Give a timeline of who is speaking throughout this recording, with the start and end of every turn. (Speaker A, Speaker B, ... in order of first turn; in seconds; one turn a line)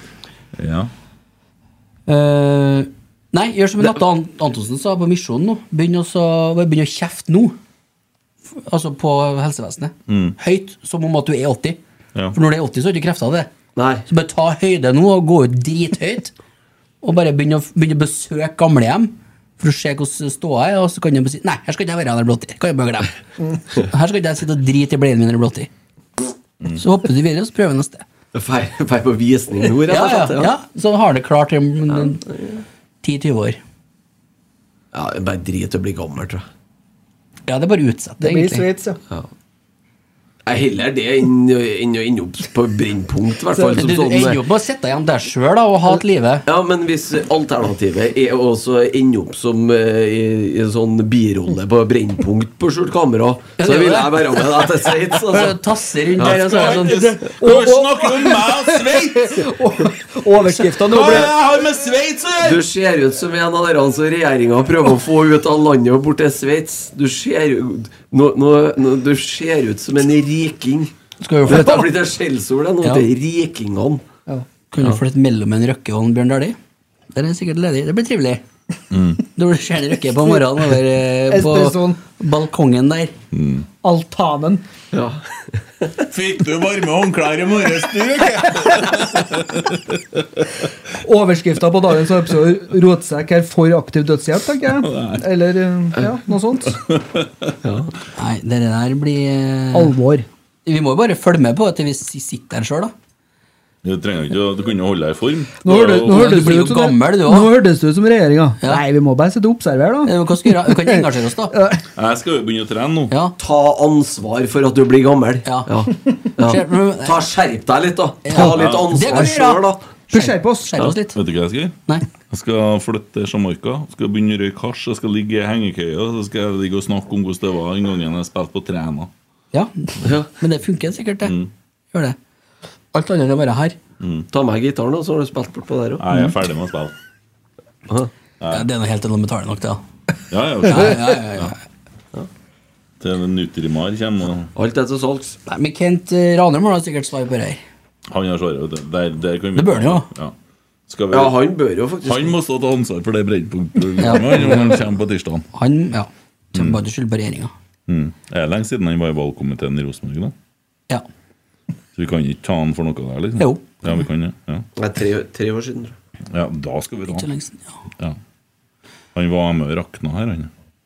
Speaker A: 0.6-0.9
Speaker B: 2.1-7.6
Speaker B: 8.6-11.8
Speaker A: 10.1-10.3
Speaker B: 12.3-13.5
Speaker C: 13.8-14.1
Speaker B: 14.1-16.3
Speaker B: 17.0-23.1
Speaker B: 23.7-25.7
Speaker B: 26.8-28.0
Speaker C: 28.3-30.5
Speaker B: 29.9-32.2
Speaker C: 32.2-32.6
Speaker B: 33.0-33.6
Speaker C: 34.9-36.5
Speaker B: 37.5-38.7
Speaker D: 38.2-39.0
Speaker C: 40.5-44.4
Speaker D: 43.5-43.8
Speaker B: 43.8-46.5
Speaker C: 46.5-55.6
Speaker B: 53.6-54.5
Speaker B: 55.3-57.2
Speaker A: 56.2-59.5
Speaker D: 56.8-61.3
Speaker A: 60.6-62.6
Speaker C: 62.4-70.9
Speaker B: 71.2-71.9
Speaker C: 71.5-74.0
Speaker B: 74.7-76.6
Speaker B: 77.1-78.4
Speaker A: 78.9-79.2
Speaker B: 79.3-83.1
Speaker D: 81.3-82.0
Speaker A: 83.3-83.7
Speaker D: 83.8-84.6
Speaker C: 84.9-86.0
Speaker A: 86.0-90.5
Speaker D: 91.0-96.8
Speaker A: 94.7-95.3
Speaker A: 96.7-97.6
Speaker C: 97.6-97.9
Speaker B: 98.2-99.9
Speaker D: 99.7-100.3
Speaker B: 100.7-102.9
Speaker A: 103.8-106.4
Speaker D: 105.6-111.8
Speaker B: 105.9-107.6
Speaker B: 110.1-111.6
Speaker A: 112.0-113.1
Speaker B: 113.1-113.4
Speaker C: 113.4-119.8
Speaker B: 115.5-115.7
Speaker B: 116.4-117.2
Speaker B: 118.2-121.2
Speaker A: 118.5-119.0
Speaker D: 119.1-119.4
Speaker D: 120.1-121.0
Speaker A: 121.1-129.1
Speaker B: 129.5-131.4
Speaker C: 130.0-130.3
Speaker A: 131.2-131.5
Speaker B: 132.9-133.8
Speaker A: 134.0-134.3
Speaker C: 134.3-136.0
Speaker A: 136.0-136.9
Speaker A: 138.4-138.7
Speaker B: 138.5-139.8
Speaker A: 140.3-141.5
Speaker B: 140.7-141.6
Speaker A: 143.0-144.5
Speaker C: 144.6-145.4
Speaker B: 145.5-147.6
Speaker A: 148.1-150.3
Speaker B: 149.6-150.1
Speaker A: 150.9-151.4
Speaker C: 151.1-152.3
Speaker A: 152.0-155.5
Speaker B: 154.0-154.8
Speaker B: 155.5-157.5
Speaker A: 157.9-160.3
Speaker A: 161.9-164.7
Speaker B: 163.4-163.6
Speaker C: 164.8-165.9
Speaker A: 166.3-167.3
Speaker B: 167.1-167.8
Speaker A: 169.2-170.5